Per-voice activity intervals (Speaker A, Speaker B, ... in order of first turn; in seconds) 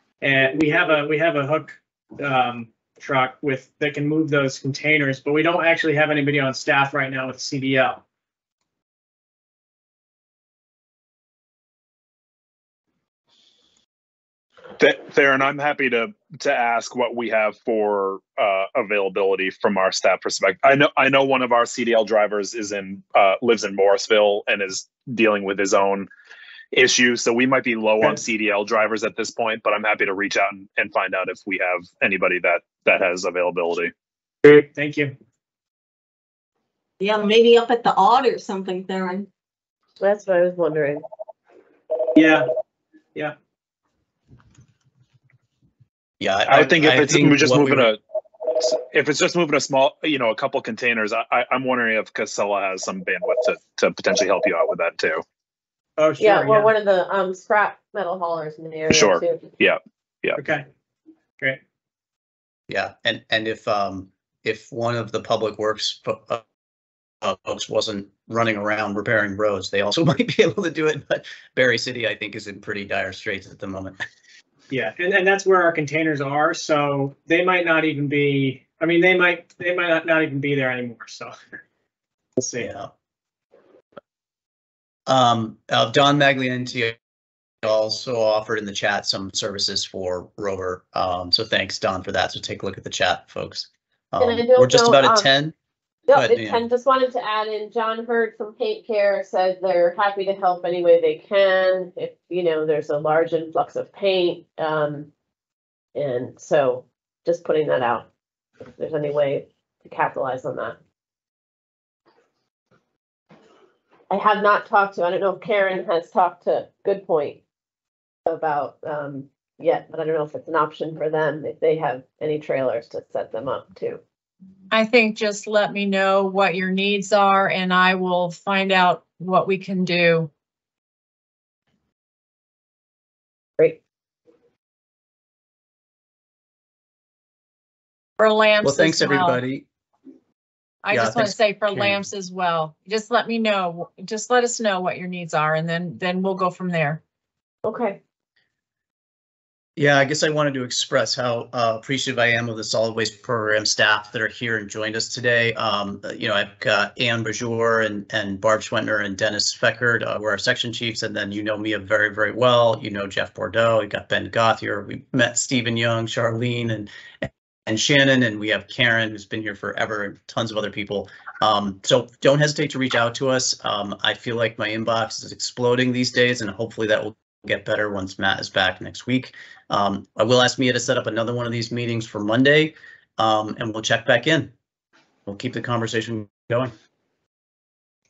Speaker A: 0.2-8.0, 34.4-35.1, 42.2-42.5, 56.0-56.7, 60.4-60.7, 74.7-81.3, 82.4-82.7
Speaker B: 14.8-26.1, 26.7-33.9, 46.5-48.0, 48.5-55.2, 58.9-60.4
Speaker C: 37.0-39.3
Speaker D: 40.0-41.0, 56.2-59.5, 94.2-95.3, 96.1-105.1, 106.0-108.1, 108.8-110.8, 114.1-117.4, 118.3-124.0, 147.7-148.0
Speaker E: 46.2-47.9, 62.7-66.4, 67.2-74.0, 82.6-82.9, 85.1-87.0, 87.6-95.5, 96.1-96.6, 138.6-139.7, 140.9-142.0, 149.8-184.5, 185.3-186.7
Speaker F: 124.7-130.3, 138.2-139.4, 140.8-147.0